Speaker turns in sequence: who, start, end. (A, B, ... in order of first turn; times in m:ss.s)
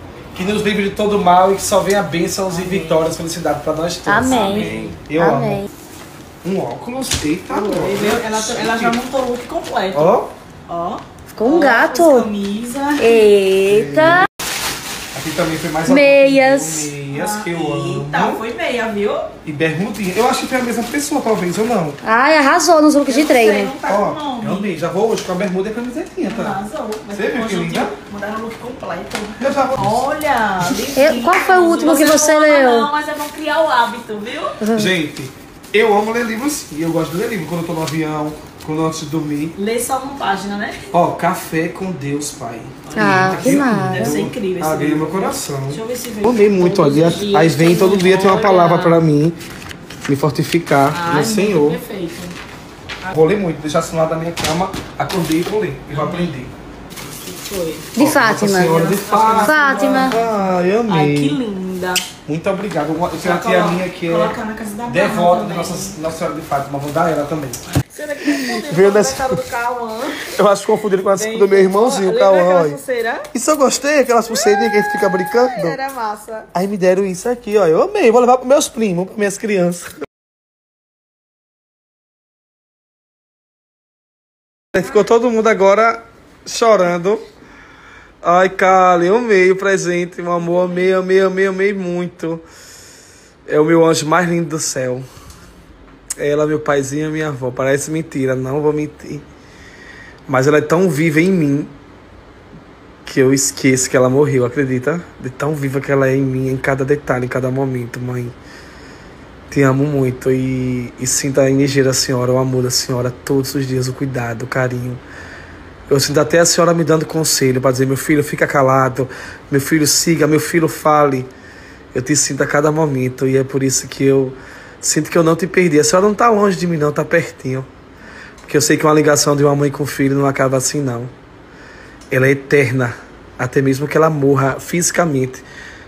0:00.3-0:05.6 A
0:02.5-0:03.1 B
0:04.1-0:05.7 C
0:04.2-0:05.0 B
0:06.4-0:09.0 A
0:07.5-0:13.3 B
0:09.9-0:10.3 A
0:11.3-0:12.3 C
0:13.0-0:14.3 C
0:13.7-0:14.3 A
0:15.1-0:18.4 A
0:15.9-0:16.9 C
0:17.1-0:19.3 B
0:19.4-0:22.0 A
0:22.0-0:23.7 C
0:23.1-0:24.8 B
0:23.9-0:26.6 A
0:26.3-0:34.6 B
0:27.1-0:27.9 A
0:29.4-0:30.0 A
0:30.9-0:32.9 C
0:34.6-0:34.9 C
0:34.7-0:39.6 A
0:39.6-0:40.9 B
0:40.9-0:49.4 A
0:42.9-0:49.0 B
0:43.0-0:44.2 C
0:50.1-0:51.8 A
0:50.9-0:52.4 B
0:53.1-0:56.5 A
0:55.9-0:56.3 B
0:57.2-0:57.9 B
0:58.0-1:00.2 C
0:58.0-1:01.4 A
0:58.5-1:02.0 B
1:02.2-1:04.4 A
1:03.2-1:06.0 B
1:04.9-1:07.6 A
1:07.9-1:10.3 B
1:08.3-1:09.3 A
1:10.2-1:12.8 A
1:11.2-1:13.3 B
1:13.3-1:15.8 A
1:14.3-1:16.5 B
1:16.5-1:19.9 A
1:24.7-1:27.2 A
1:28.2-1:32.4 A
1:33.5-1:35.1 A
1:36.2-1:39.2 A
1:40.3-1:41.7 A
1:43.0-1:48.4 A
1:49.5-1:55.0 A
1:55.9-2:01.3 A
2:01.9-2:07.7 A
2:08.4-2:11.1 A
2:12.1-2:15.4 A